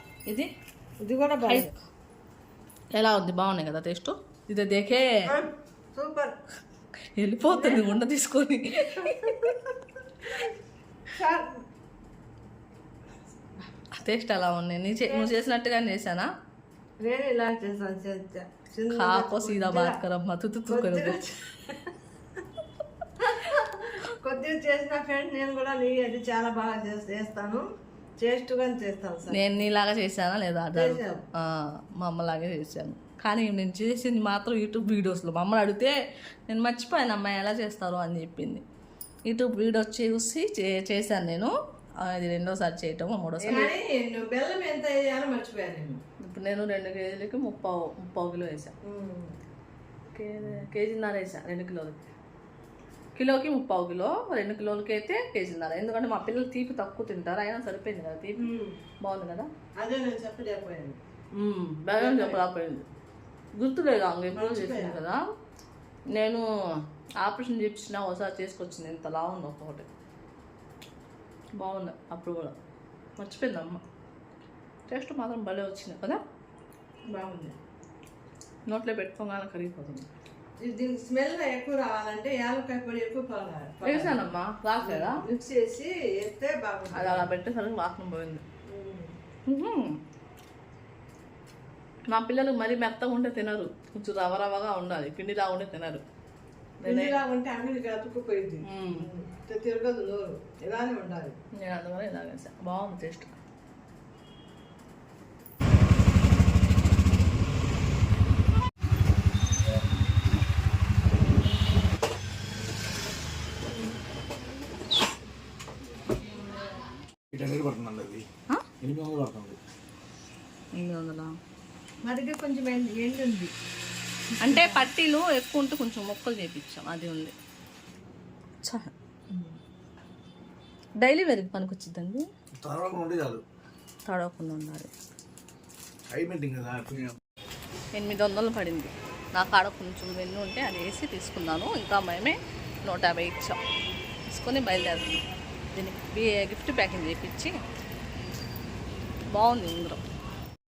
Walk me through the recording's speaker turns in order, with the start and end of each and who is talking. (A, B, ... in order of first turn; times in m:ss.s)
0:01.0-0:01.7 A
0:01.5-0:01.7 B
0:02.9-0:05.3 B
0:05.3-0:06.3 A
0:07.2-0:09.5 B
0:07.5-0:08.0 A
0:09.0-0:10.5 A
0:11.1-0:11.6 A
0:14.0-0:16.3 B
0:15.0-0:15.3 A
0:17.0-0:20.0 A
0:18.9-0:21.2 B
0:20.7-0:21.9 A
0:23.2-0:27.6 A
0:28.2-0:29.4 A
0:29.3-0:36.0 B
0:30.7-0:31.2 A
0:36.5-0:38.6 B
0:39.3-0:41.5 B
0:42.0-0:43.7 B
0:43.4-0:46.0 A
0:46.2-0:48.7 B
0:48.8-0:49.3 A
0:50.1-0:52.0 B
0:53.2-0:58.5 B
0:58.4-0:58.8 A
0:59.0-0:59.5 B
0:59.8-1:01.0 A
1:01.4-1:02.8 B
1:02.0-1:02.4 A
1:03.6-1:05.2 B
1:04.4-1:05.0 A
1:06.1-1:06.4 B
1:07.2-1:09.9 B
1:11.6-1:12.5 B
1:13.2-1:13.8 B
1:14.9-1:16.2 B
1:17.1-1:17.6 A
1:18.7-1:20.1 B
1:20.6-1:24.2 A
1:23.8-1:25.2 B
1:24.8-1:27.3 A
1:27.0-1:28.4 B
1:28.7-1:29.1 A
1:29.5-1:30.0 B
1:32.1-1:36.0 B
1:36.8-1:37.2 B
1:36.8-1:41.4 A
1:38.7-1:39.1 B
1:41.6-1:43.4 B
1:57.3-1:58.3 C
1:58.8-1:59.6 C
2:00.8-2:01.3 B
2:02.0-2:03.5 A
2:04.4-2:07.3 B
2:04.5-2:04.9 A
2:08.6-2:08.9 B
2:11.0-2:12.2 B
2:12.6-2:13.4 C
2:14.1-2:14.9 B
2:16.1-2:17.2 C
2:18.0-2:23.6 B
2:24.3-2:27.6 B
2:29.3-2:30.0 B